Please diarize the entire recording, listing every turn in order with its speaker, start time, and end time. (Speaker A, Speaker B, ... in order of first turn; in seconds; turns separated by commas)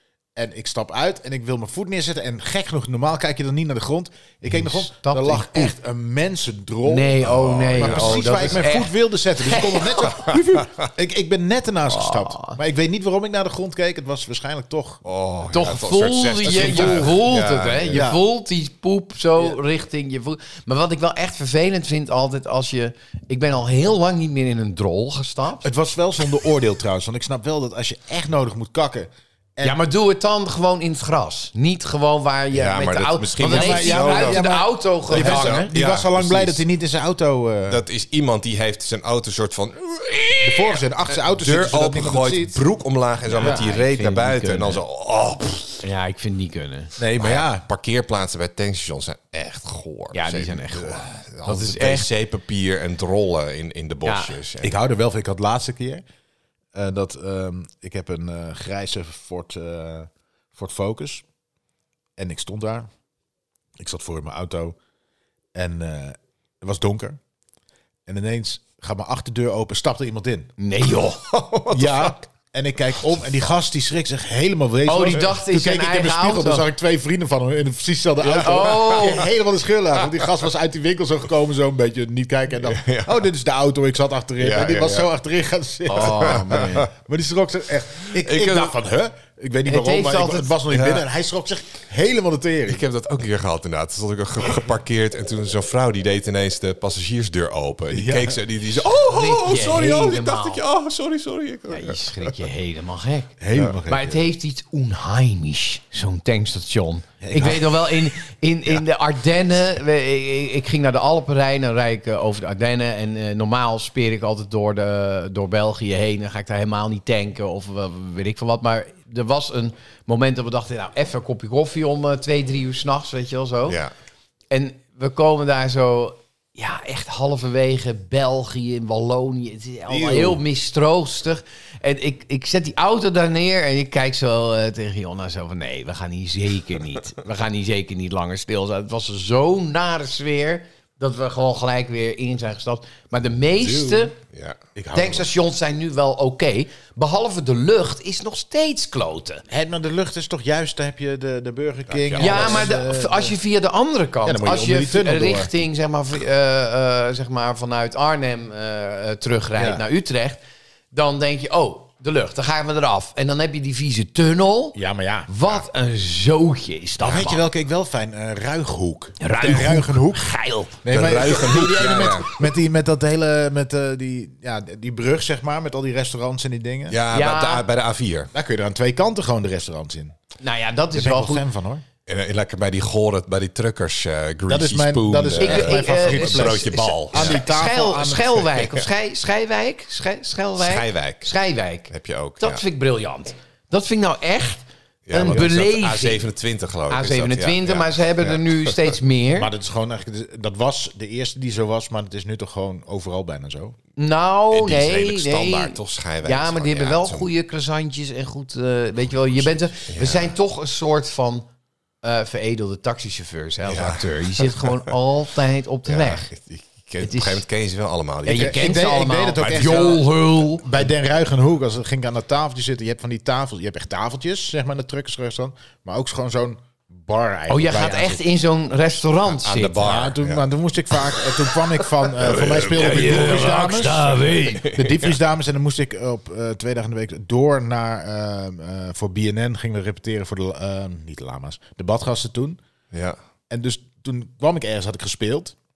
Speaker A: 0.3-15.0, Speaker B: 4.5-5.7, Speaker B: 6.8-10.1, Speaker C: 7.6-8.4, Speaker C: 10.2-10.6, Speaker B: 11.9-12.6, Speaker C: 15.0-18.1, Speaker B: 15.5-25.7, Speaker A: 16.5-17.2, Speaker A: 17.9-18.2, Speaker A: 25.6-29.8, Speaker B: 29.6-35.7, Speaker C: 32.5-36.6, Speaker A: 33.4-37.8, Speaker C: 37.7-45.8, Speaker A: 40.4-42.6, Speaker B: 43.3-44.8, Speaker B: 45.8-46.9, Speaker A: 47.0-47.6, Speaker C: 47.2-54.7, Speaker B: 50.1-52.1, Speaker B: 54.0-54.4, Speaker A: 54.6-56.0, Speaker A: 56.7-61.2, Speaker A: 62.2-62.9, Speaker A: 63.8-64.8, Speaker A: 65.5-67.2, Speaker A: 68.0-70.5, Speaker B: 70.6-71.2, Speaker C: 71.2-72.2, Speaker A: 71.7-92.8, Speaker B: 74.8-76.7, Speaker C: 78.2-79.2, Speaker B: 78.3-79.3, Speaker C: 82.6-83.2, Speaker C: 84.4-85.1, Speaker B: 85.9-86.9, Speaker C: 85.9-86.8, Speaker C: 88.1-88.7, Speaker B: 89.7-90.5, Speaker C: 90.7-91.0, Speaker C: 92.7-102.4, Speaker A: 97.9-98.4, Speaker B: 99.0-100.6, Speaker B: 101.7-123.8, Speaker A: 103.4-104.2, Speaker A: 107.2-107.9, Speaker B: 124.5-144.1, Speaker C: 129.9-130.4, Speaker C: 144.2-144.6, Speaker A: 144.8-145.3, Speaker B: 144.9-149.4, Speaker A: 149.5-153.3, Speaker C: 151.9-152.7, Speaker B: 152.2-160.4, Speaker A: 154.2-155.5, Speaker A: 159.6-159.8, Speaker B: 160.9-167.4, Speaker A: 164.7-165.3, Speaker A: 167.0-177.0, Speaker B: 169.2-172.3, Speaker C: 170.9-172.3, Speaker C: 176.9-178.3, Speaker B: 177.1-177.6, Speaker A: 178.3-180.2, Speaker B: 180.4-181.4, Speaker A: 180.9-181.8, Speaker C: 182.1-187.4, Speaker A: 184.5-188.4, Speaker B: 185.4-196.2, Speaker C: 188.6-188.8, Speaker C: 190.6-191.3, Speaker C: 191.9-192.6, Speaker C: 195.1-198.9, Speaker A: 195.2-195.5, Speaker B: 196.9-199.5, Speaker A: 199.3-203.8, Speaker B: 204.0-211.4, Speaker C: 204.5-207.3, Speaker C: 209.9-210.3, Speaker B: 212.0-216.3, Speaker C: 213.7-214.8, Speaker C: 215.9-218.7, Speaker B: 217.0-217.4, Speaker B: 218.2-220.7, Speaker A: 218.3-228.2, Speaker C: 219.4-220.0, Speaker B: 227.5-230.0, Speaker C: 229.3-230.4, Speaker A: 229.8-242.6, Speaker C: 232.2-235.1, Speaker B: 232.5-234.7, Speaker C: 242.9-243.2, Speaker A: 243.5-245.6